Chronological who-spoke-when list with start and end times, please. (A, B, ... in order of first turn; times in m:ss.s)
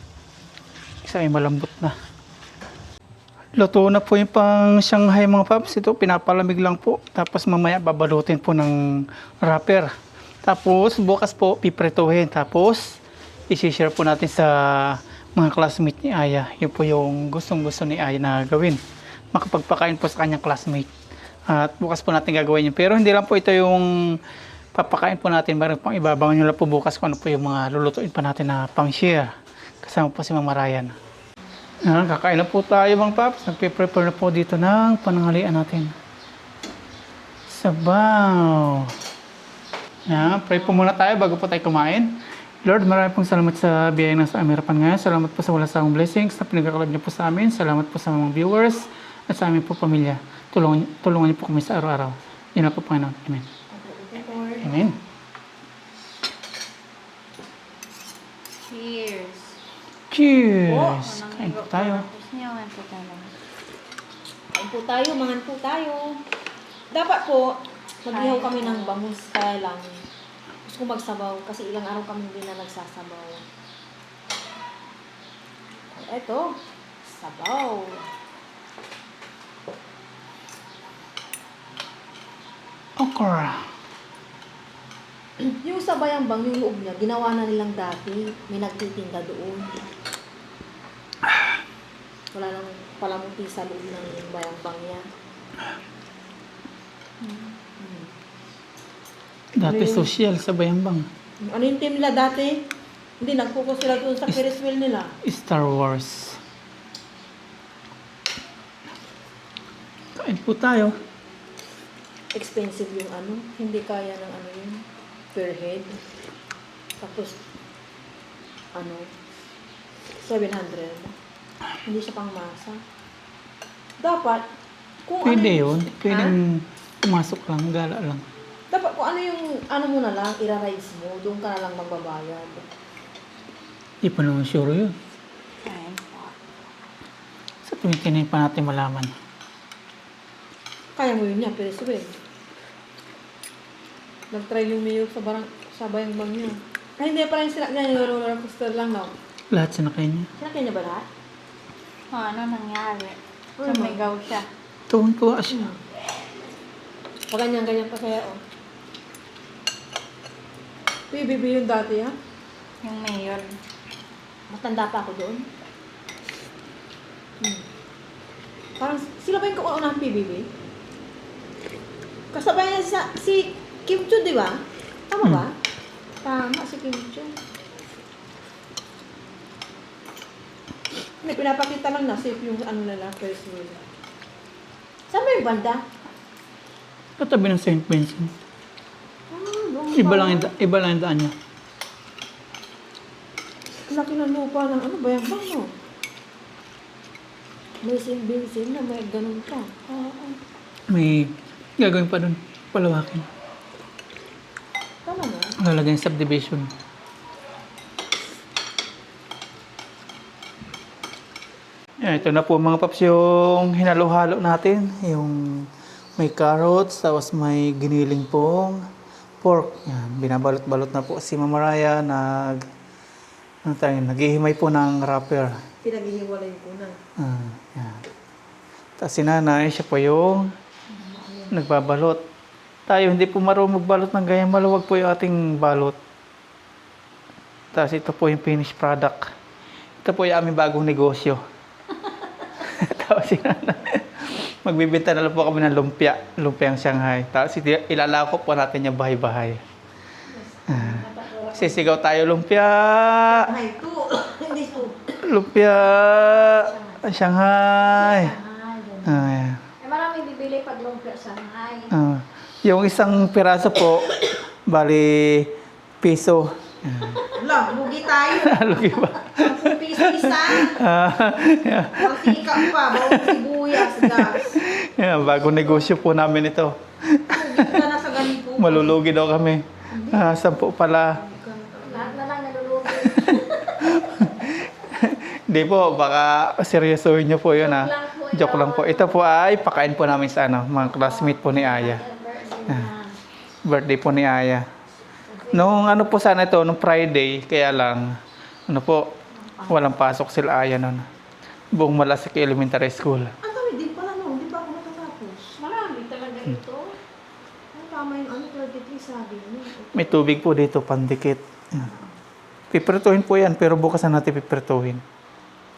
0:01.0-0:02.0 A
0:03.6-0:09.9 A
0:10.4-0:13.0 A
0:13.5-0:18.8 A
0:19.3-0:20.9 A
0:21.5-0:23.9 A
0:24.8-0:29.3 A
0:29.8-0:30.9 A
0:31.8-0:35.9 A
0:37.5-0:38.9 A
0:40.1-0:53.5 A
0:53.7-0:54.8 B
0:54.6-0:55.0 A
0:58.6-0:59.6 C
1:00.1-1:02.0 A
1:00.7-1:03.3 C
1:04.5-1:06.2 B
1:06.9-1:09.9 B
1:08.1-1:09.0 C
1:10.7-1:13.4 B
1:15.9-1:18.0 B
1:23.0-1:23.6 A
1:25.4-1:29.9 B
1:32.3-1:35.0 B
1:37.8-1:38.1 B
1:39.6-1:41.1 A
1:39.6-1:40.1 B
1:41.4-1:42.6 B
1:43.2-1:45.1 B
1:45.2-1:46.4 A
1:50.2-1:51.0 A
1:52.3-1:56.0 B
1:57.0-1:57.4 B
1:58.8-1:59.1 B
2:00.2-2:01.1 B
2:01.9-2:02.8 B
2:04.0-2:04.4 B
2:05.1-2:06.4 B
2:05.2-2:08.2 A
2:08.7-2:12.7 B
2:14.0-2:14.9 A
2:15.7-2:16.3 C
2:17.6-2:19.1 A
2:21.0-2:22.1 B
2:24.3-2:29.1 B
2:29.5-2:30.3 A
2:30.4-2:31.1 B
2:32.1-2:34.5 C
2:33.6-2:34.0 B
2:34.9-2:35.7 A
2:35.5-2:35.8 B
2:37.3-2:38.4 B
2:41.1-2:42.2 B
2:42.8-2:43.5 C
2:44.5-2:45.4 B
2:48.8-2:50.5 B
2:52.3-2:55.6 B
2:56.2-2:57.3 B
3:01.2-3:03.8 B
3:05.1-3:05.8 B
3:07.2-3:08.3 A
3:09.3-3:10.5 B
3:10.0-3:11.3 A
3:13.9-3:15.7 B
3:17.8-3:20.4 B
3:20.9-3:23.3 A
3:25.0-3:25.6 B
3:25.6-3:26.7 A
3:32.0-3:38.8 A
3:39.4-3:42.7 A
3:43.7-3:45.6 A
3:45.8-3:47.0 B
3:47.2-3:48.0 A
3:49.0-3:50.5 A
3:50.9-3:51.5 D
3:51.5-3:52.2 A
3:52.9-3:56.0 A
3:57.7-3:59.3 A
4:00.0-4:01.4 A
4:02.6-4:09.6 A
4:10.3-4:11.9 D
4:10.7-4:13.4 A
4:13.3-4:15.0 B
4:15.2-4:18.4 A
4:16.0-4:17.0 D
4:17.8-4:19.3 D
4:19.0-4:19.6 A
4:19.8-4:21.9 D
4:21.9-4:27.2 A
4:27.4-4:28.7 B
4:28.4-4:37.8 A
4:29.3-4:30.8 B
4:32.0-4:34.6 B
4:37.3-4:39.0 B
4:38.6-4:41.2 A
4:39.9-4:40.6 B
4:41.1-4:42.2 B
4:41.8-4:43.8 D
4:43.3-4:52.0 A
4:47.5-4:49.2 D
4:50.8-4:53.2 D
4:53.6-4:54.7 A
4:55.3-4:55.8 D
4:55.5-4:58.2 A
4:58.7-4:59.2 A
4:59.3-4:59.8 D
4:59.7-5:01.1 A
5:01.8-5:03.3 A
5:03.4-5:05.5 B
5:05.5-5:07.0 D
5:07.7-5:10.3 B
5:09.9-5:11.9 A
5:12.7-5:15.0 A